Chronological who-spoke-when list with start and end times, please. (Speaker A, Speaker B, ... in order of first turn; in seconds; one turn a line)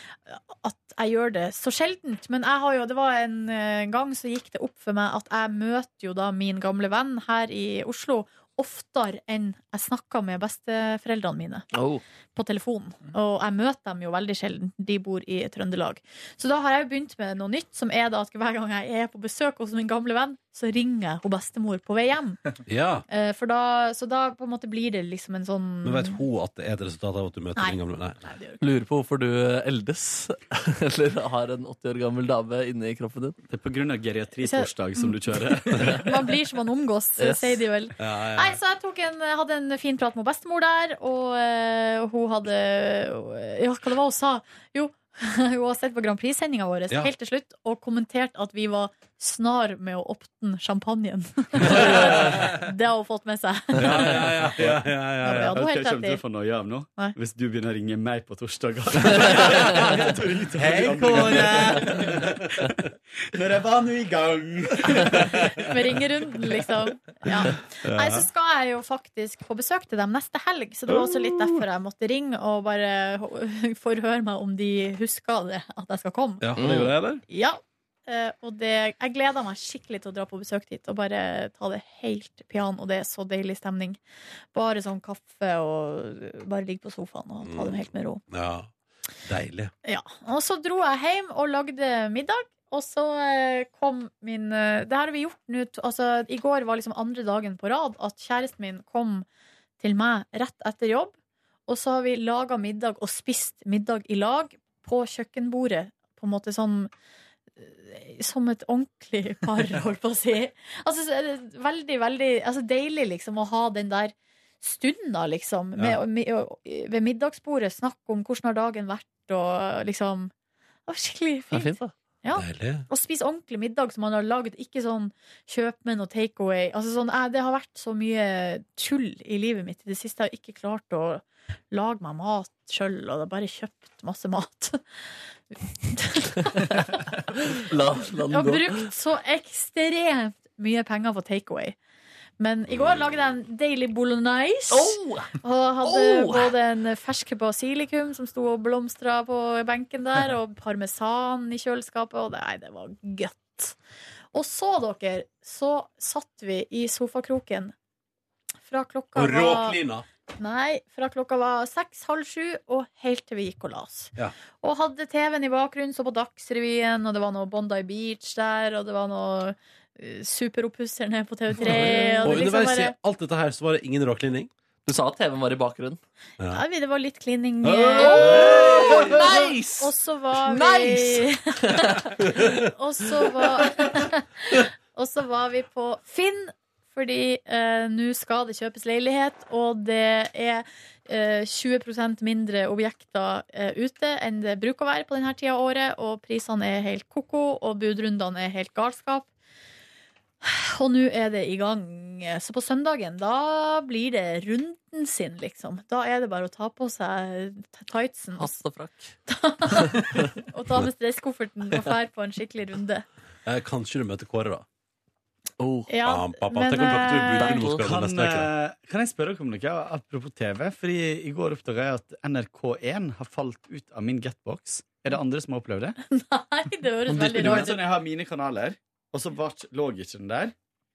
Speaker A: 0.3-11.7
Speaker B: 11.7-12.0
Speaker A: 12.3-22.5
Speaker C: 22.7-23.1
Speaker A: 23.1-26.2
Speaker C: 25.8-28.2
Speaker A: 27.6-28.6
Speaker B: 28.6-33.4
Speaker D: 33.5-36.1
Speaker A: 34.4-35.1
Speaker A: 35.7-54.3
Speaker B: 37.2-37.6
Speaker C: 38.0-38.6
Speaker C: 51.6-52.5
Speaker C: 53.8-55.6
Speaker D: 54.5-65.7
Speaker A: 55.2-56.2
Speaker C: 59.2-59.9
Speaker C: 60.6-62.7
Speaker C: 65.0-65.6
Speaker A: 65.3-76.5
Speaker C: 67.8-68.3
Speaker C: 70.9-71.6
Speaker C: 76.4-77.2
Speaker A: 77.3-84.0
Speaker A: 84.5-88.2
Speaker C: 87.4-88.7
Speaker C: 89.2-89.7
Speaker A: 89.8-99.3
Speaker A: 99.8-101.1
Speaker A: 101.7-106.9
Speaker A: 107.6-120.3
Speaker A: 120.9-134.8
Speaker B: 121.5-121.9
Speaker C: 122.3-122.9
Speaker A: 135.5-137.0
Speaker B: 137.4-138.9
Speaker A: 138.3-141.8
Speaker A: 142.4-153.8
Speaker C: 142.7-143.3
Speaker B: 144.7-146.6
Speaker A: 154.3-157.7
Speaker A: 158.7-159.8
Speaker C: 159.2-160.1
Speaker A: 160.4-172.9
Speaker B: 171.6-172.3
Speaker C: 172.2-174.5
Speaker B: 174.9-176.0
Speaker A: 176.5-199.3
Speaker C: 177.6-179.3
Speaker B: 178.0-182.1
Speaker C: 182.2-182.7
Speaker A: 200.4-208.6
Speaker B: 208.4-209.1
Speaker A: 209.3-213.1
Speaker C: 213.4-214.7
Speaker B: 215.6-215.9
Speaker A: 215.9-217.6
Speaker C: 216.0-218.5
Speaker B: 217.4-217.8
Speaker D: 217.8-226.0
Speaker A: 226.1-227.8
Speaker B: 227.1-227.7
Speaker D: 227.2-230.6